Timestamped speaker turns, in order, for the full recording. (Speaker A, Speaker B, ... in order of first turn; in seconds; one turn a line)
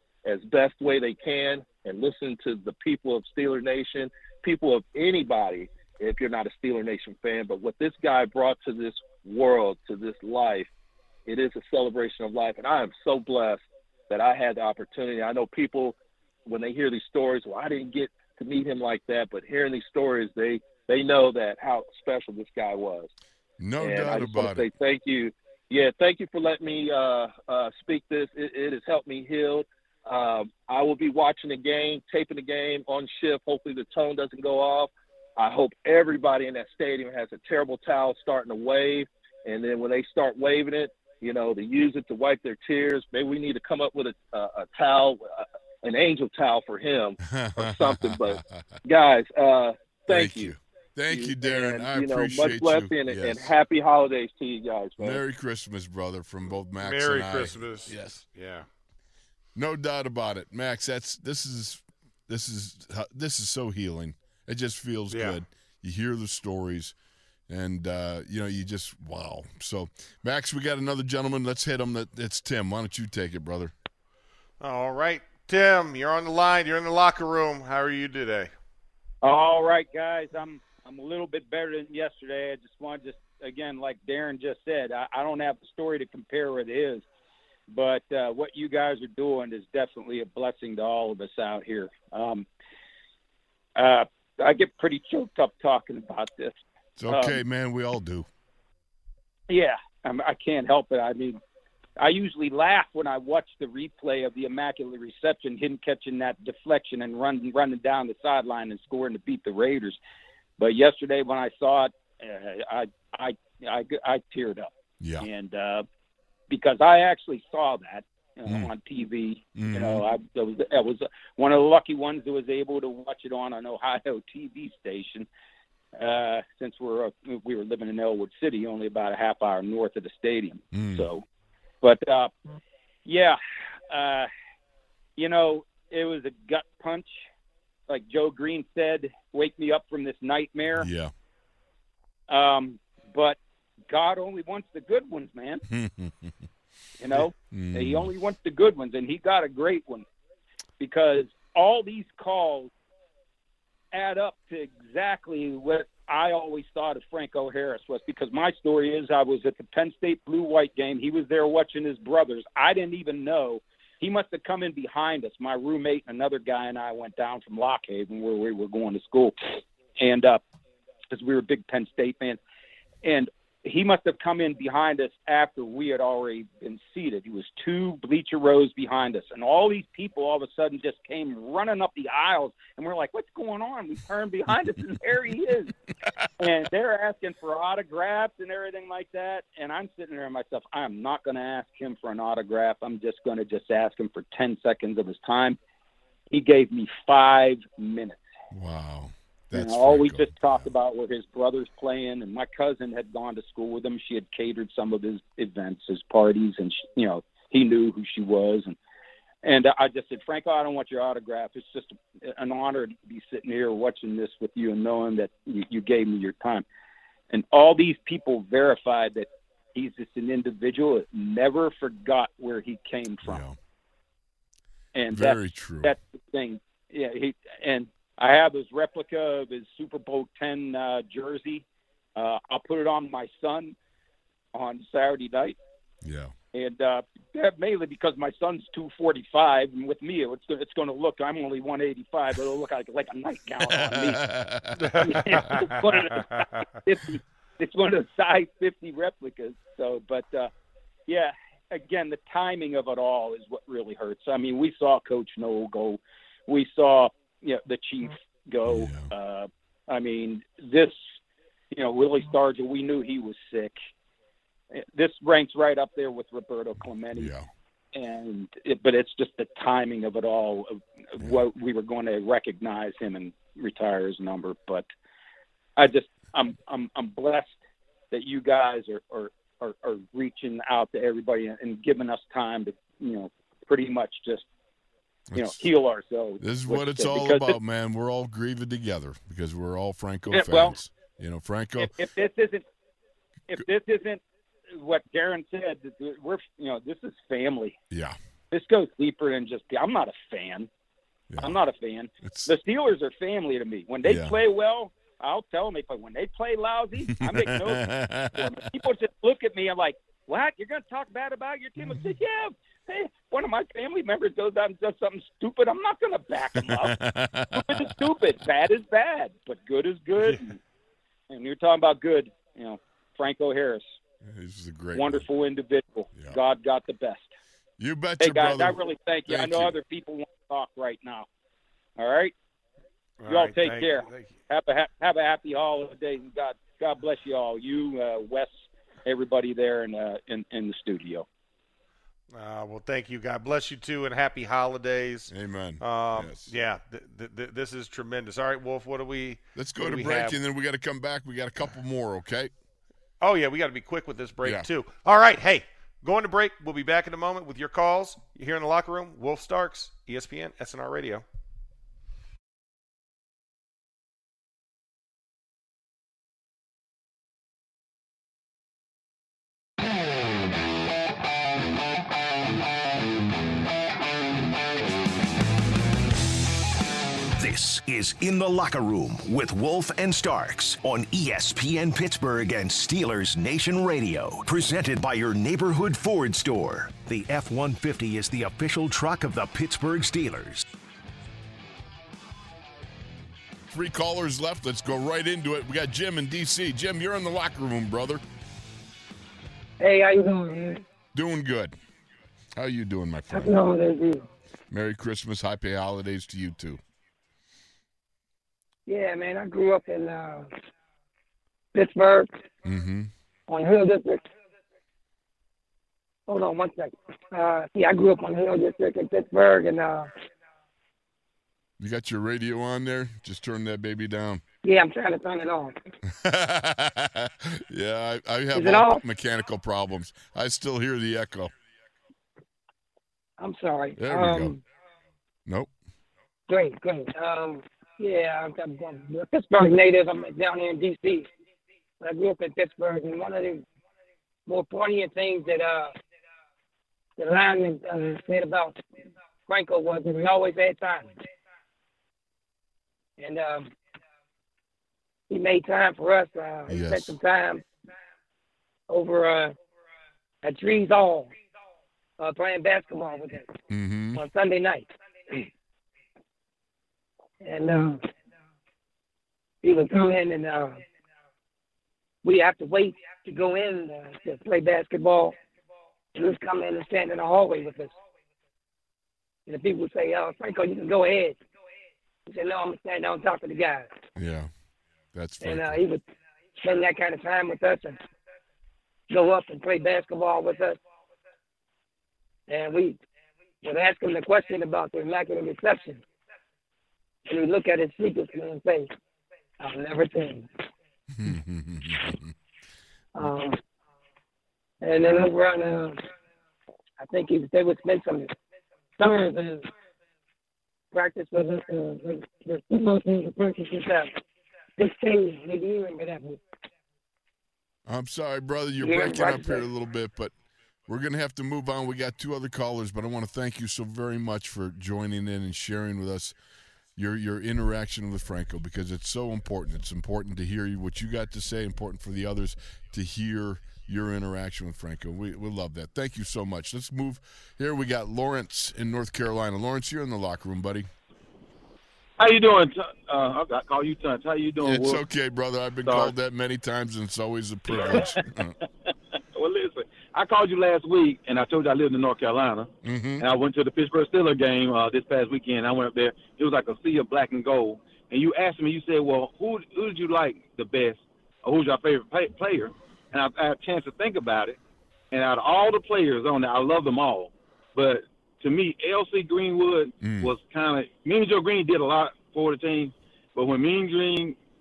Speaker A: 0.2-10.7
Speaker A: 11.3-23.1
Speaker B: 23.6-24.7
Speaker A: 23.8-50.5
Speaker B: 47.2-48.6
Speaker B: 50.1-53.5
Speaker A: 51.1-55.2
Speaker B: 55.0-58.2
Speaker C: 56.8-58.7
Speaker B: 59.5-67.0
Speaker C: 65.1-65.4
Speaker B: 67.5-73.7
Speaker C: 74.6-78.5
Speaker D: 79.2-87.0
Speaker D: 87.7-92.5
Speaker D: 93.8-96.5
Speaker B: 97.0-98.3
Speaker D: 97.1-97.4
Speaker D: 99.5-101.4
Speaker D: 102.0-110.0
Speaker D: 110.6-115.8
Speaker B: 115.0-115.2
Speaker D: 116.5-125.3
Speaker B: 119.6-120.0
Speaker D: 126.0-131.2
Speaker B: 130.7-131.1
Speaker D: 131.8-132.3
Speaker D: 133.1-133.4
Speaker D: 133.9-134.3
Speaker D: 135.2-137.1
Speaker D: 137.9-140.9
Speaker B: 140.8-141.1
Speaker D: 142.3-143.4
Speaker D: 143.9-145.6
Speaker B: 145.7-146.3
Speaker D: 147.0-150.1
Speaker B: 147.1-148.1
Speaker D: 150.8-152.7
Speaker D: 153.9-169.4
Speaker D: 170.0-170.4
Speaker D: 171.1-172.4
Speaker D: 173.0-185.7
Speaker D: 186.4-195.6
Speaker D: 196.3-198.2
Speaker B: 198.5-200.7
Speaker D: 199.5-208.8
Speaker D: 209.4-216.7
Speaker D: 217.3-223.4
Speaker B: 223.2-223.6
Speaker D: 224.9-231.7
Speaker B: 225.1-225.9
Speaker D: 232.2-233.8
Speaker D: 234.5-235.6
Speaker B: 236.0-236.3
Speaker D: 236.5-244.2
Speaker B: 243.6-245.6
Speaker C: 244.8-245.9
Speaker D: 245.0-250.5
Speaker D: 251.1-261.0
Speaker B: 258.7-259.1
Speaker D: 261.7-263.8
Speaker D: 264.7-267.3
Speaker B: 267.1-267.5
Speaker D: 267.9-274.9
Speaker D: 275.8-277.6
Speaker D: 278.1-284.5
Speaker B: 285.3-285.6
Speaker D: 285.4-287.6
Speaker B: 286.4-291.9
Speaker D: 290.3-290.8
Speaker D: 291.8-292.6
Speaker D: 293.5-294.2
Speaker D: 294.7-297.8
Speaker B: 297.9-298.2
Speaker D: 298.5-300.7
Speaker B: 301.3-301.6
Speaker D: 301.4-316.9
Speaker B: 302.2-302.5
Speaker B: 304.0-304.4
Speaker B: 307.1-308.5
Speaker B: 316.7-317.8
Speaker D: 317.5-320.6
Speaker D: 321.3-323.9
Speaker B: 324.2-325.2
Speaker D: 324.9-327.3
Speaker B: 327.8-329.8
Speaker D: 328.2-331.3
Speaker D: 332.0-332.3
Speaker C: 333.2-334.3
Speaker D: 333.3-341.3
Speaker C: 342.3-350.4
Speaker B: 345.3-346.5
Speaker B: 349.6-352.5
Speaker C: 353.2-361.2
Speaker E: 377.4-390.6
Speaker B: 393.7-398.2
Speaker F: 399.8-400.8
Speaker B: 401.1-401.8
Speaker B: 402.6-403.6
Speaker F: 403.3-404.3
Speaker B: 404.7-406.8
Speaker F: 408.9-410.5
Speaker F: 411.7-412.3
Speaker B: 412.6-413.1
Speaker F: 413.5-414.2
Speaker F: 416.3-420.1
Speaker B: 421.8-424.4
Speaker F: 424.6-425.8
Speaker B: 426.1-431.5
Speaker F: 428.5-429.0
Speaker F: 433.4-434.6
Speaker B: 434.0-434.5
Speaker F: 436.5-441.3
Speaker F: 442.0-443.6
Speaker F: 444.5-445.9
Speaker F: 447.2-448.8
Speaker F: 449.5-451.1
Speaker F: 453.2-453.7
Speaker F: 455.3-457.7
Speaker B: 456.7-457.2
Speaker F: 458.9-459.5
Speaker F: 460.4-461.4
Speaker F: 462.2-463.5
Speaker B: 463.7-464.2
Speaker F: 464.1-465.5
Speaker F: 467.4-468.0
Speaker F: 469.6-470.8
Speaker F: 472.2-475.4
Speaker F: 476.1-477.9
Speaker F: 479.5-481.4
Speaker F: 482.3-483.9
Speaker B: 484.2-484.5
Speaker B: 485.1-485.8
Speaker F: 485.4-486.0
Speaker F: 486.6-488.0
Speaker F: 489.1-490.8
Speaker F: 492.5-493.0
Speaker F: 493.6-496.0
Speaker F: 497.3-498.9
Speaker F: 499.6-500.5
Speaker B: 501.1-502.2
Speaker F: 503.1-503.6
Speaker F: 504.8-506.0
Speaker F: 507.0-508.3
Speaker F: 509.0-509.7
Speaker F: 510.9-514.1
Speaker F: 514.8-516.4
Speaker B: 517.9-520.3
Speaker F: 518.8-519.7
Speaker B: 520.9-526.4
Speaker B: 527.0-540.9
Speaker G: 542.2-545.0
Speaker B: 544.6-548.5
Speaker G: 545.9-546.1
Speaker G: 547.7-548.2
Speaker G: 549.4-564.6
Speaker B: 552.8-553.2
Speaker G: 565.1-574.4
Speaker B: 570.0-570.3